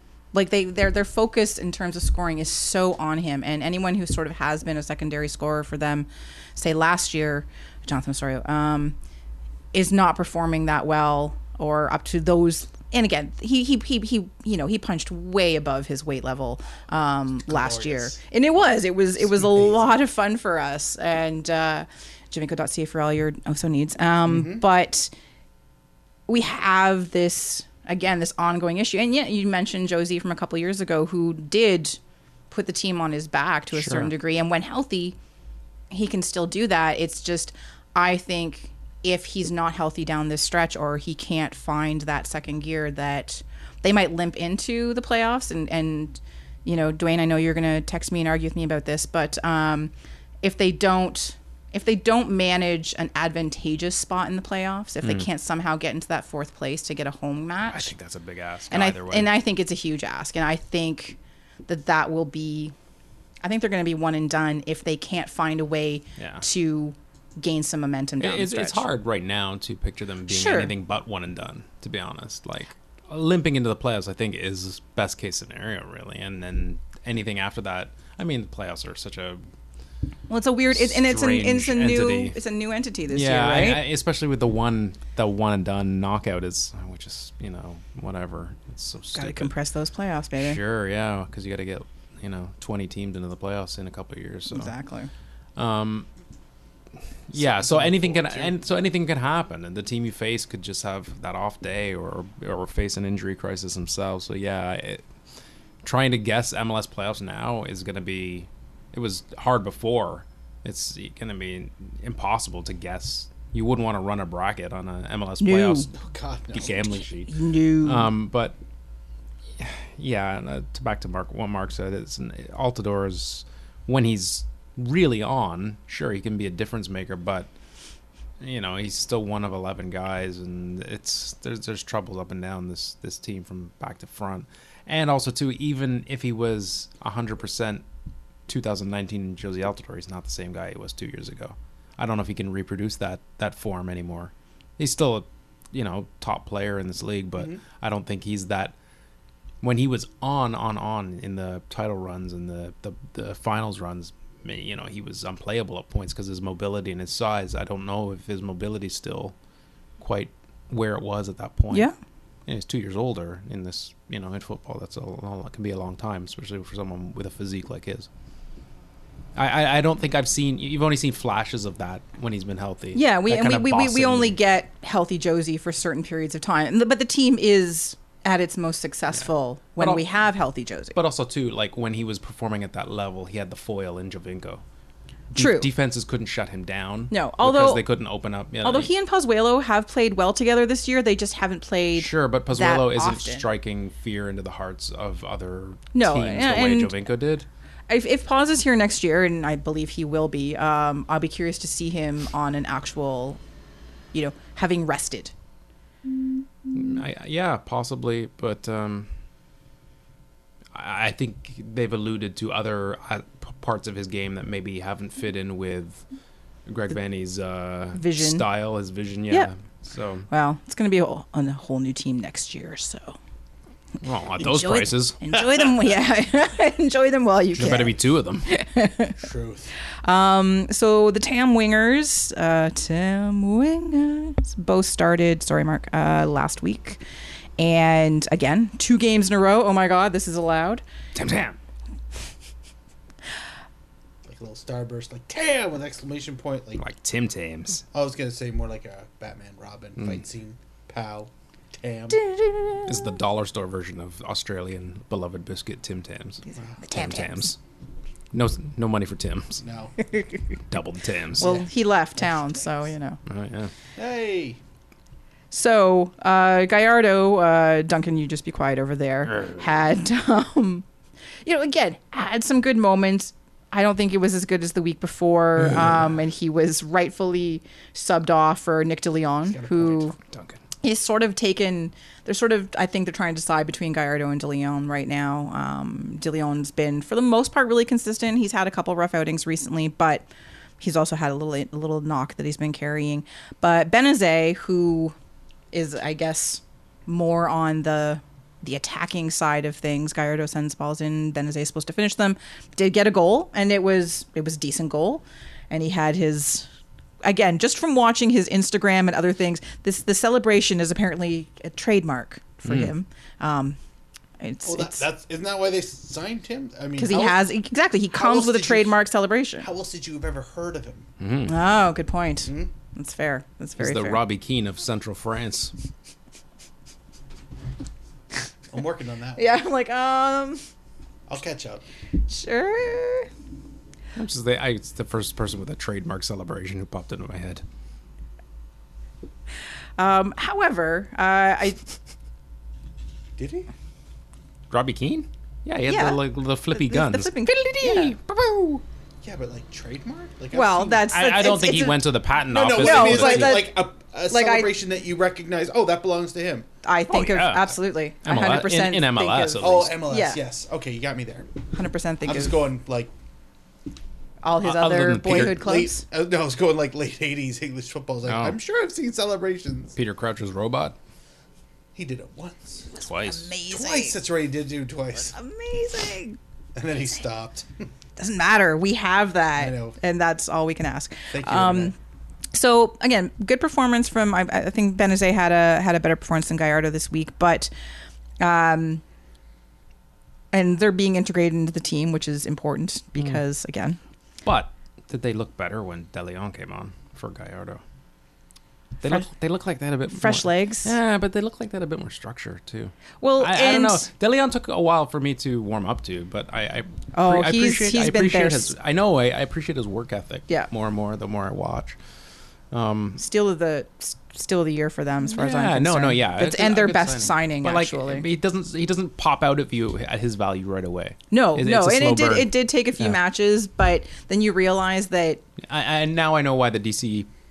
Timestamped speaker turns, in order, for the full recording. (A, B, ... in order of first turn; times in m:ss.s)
0:00.3-0:09.0 A
0:09.7-0:25.1 A
0:17.4-0:18.2 B
0:19.3-0:19.9 B
0:24.3-0:24.6 B
0:26.3-0:32.0 A
0:32.5-0:35.2 A
0:33.7-0:34.1 C
0:35.9-0:57.9 A
0:57.6-0:59.3 C
0:58.7-1:02.7 A
1:03.4-1:08.8 A
1:06.2-1:06.4 C
1:08.2-1:19.4 C
1:10.3-1:10.7 A
1:20.3-1:23.8 A
1:20.7-1:22.4 C
1:23.1-1:29.5 C
1:29.1-1:30.6 A
1:30.4-1:34.7 C
1:34.5-1:35.1 A
1:35.6-1:36.1 C
1:37.3-1:45.0 C
1:37.3-1:38.6 B
1:45.8-1:55.9 C
1:55.4-1:55.9 A
1:55.9-1:57.0 B
1:56.5-1:58.6 C
1:57.3-1:58.1 A
1:59.6-2:07.5 C
2:08.4-2:17.8 C
2:18.5-2:28.7 C
2:29.6-2:39.3 C
2:40.0-2:41.9 C
2:41.7-2:42.0 A
2:42.5-2:48.1 C
2:49.4-2:54.4 C
2:52.9-3:01.0 A
2:59.8-3:00.0 C
3:00.9-3:04.6 C
3:05.3-3:08.9 C
3:05.3-3:05.7 A
3:07.1-3:07.8 A
3:08.6-3:13.4 A
3:12.0-3:17.5 C
3:15.9-3:16.9 A
3:17.9-3:23.4 A
3:24.1-3:25.3 A
3:26.7-3:29.1 C
3:30.7-3:36.0 C
3:36.7-3:40.3 C
3:37.9-3:38.4 A
3:40.3-3:43.2 A
3:44.0-3:45.2 C
3:44.4-3:49.2 A
3:47.6-3:48.4 C
3:49.2-3:49.7 B
3:50.0-3:57.0 A
3:57.6-4:00.8 A
4:01.1-4:01.6 C
4:04.2-4:06.8 B
4:06.8-4:07.8 C
4:07.9-4:12.2 B
4:10.0-4:10.2 C
4:12.1-4:13.1 A
4:12.8-4:17.6 C
4:16.4-4:17.5 A
4:18.3-4:19.6 C
4:19.6-4:19.9 B
4:20.7-4:21.6 C
4:21.4-4:23.2 A
4:21.4-4:22.4 B
4:23.2-4:23.7 C
4:24.0-4:24.6 B
4:25.5-4:30.8 A
4:29.3-4:29.6 C
4:31.4-4:40.1 A
4:35.6-4:36.0 C
4:39.5-4:40.1 B
4:40.2-4:40.6 C
4:40.8-4:50.3 A
4:50.8-4:55.1 A
4:55.7-5:06.7 A
5:07.2-5:13.8 A
5:12.6-5:12.9 C
5:14.4-5:15.1 A
5:14.6-5:17.4 B
5:17.0-5:19.7 A
5:18.1-5:19.0 B
5:19.6-5:21.1 B
5:21.2-5:21.5 C
5:21.5-5:24.2 A
5:23.8-5:25.7 C
5:28.7-5:29.4 B
5:29.4-5:30.6 A
5:31.3-5:31.8 B
5:32.3-5:33.3 A
5:34.2-5:37.6 C
5:40.0-5:41.8 A
5:43.4-5:43.7 B
5:44.7-5:48.8 C
5:45.8-5:48.2 A
5:49.2-5:51.1 B
5:50.5-5:52.0 A
5:51.1-5:53.7 C
5:52.5-5:56.7 B
5:52.8-5:54.7 A
5:56.8-6:00.4 A
5:57.1-5:59.9 C
5:59.6-6:01.5 B
6:01.7-6:02.6 A
6:02.2-6:03.1 B
6:04.4-6:06.0 A
6:04.6-6:05.6 C
6:05.4-6:09.9 B
6:08.2-6:08.6 C
6:10.0-6:11.0 C
6:11.9-6:12.9 B
6:13.0-6:14.2 A
6:13.0-6:13.5 C
6:13.7-6:15.4 B
6:15.3-6:16.4 A
6:16.8-6:17.8 B
6:18.2-6:22.0 A
6:19.6-6:20.0 B
6:21.3-6:21.9 B
6:22.5-6:27.7 A
6:28.4-6:29.0 A
6:30.5-6:34.0 A
6:34.4-6:37.8 C
6:39.0-6:52.0 C
6:40.1-6:40.9 A
6:43.2-6:44.1 A
6:47.1-6:48.7 A
6:52.7-6:53.2 C
6:53.2-6:58.2 A
6:55.3-7:03.2 C
7:01.3-7:05.4 A
7:05.7-7:07.3 C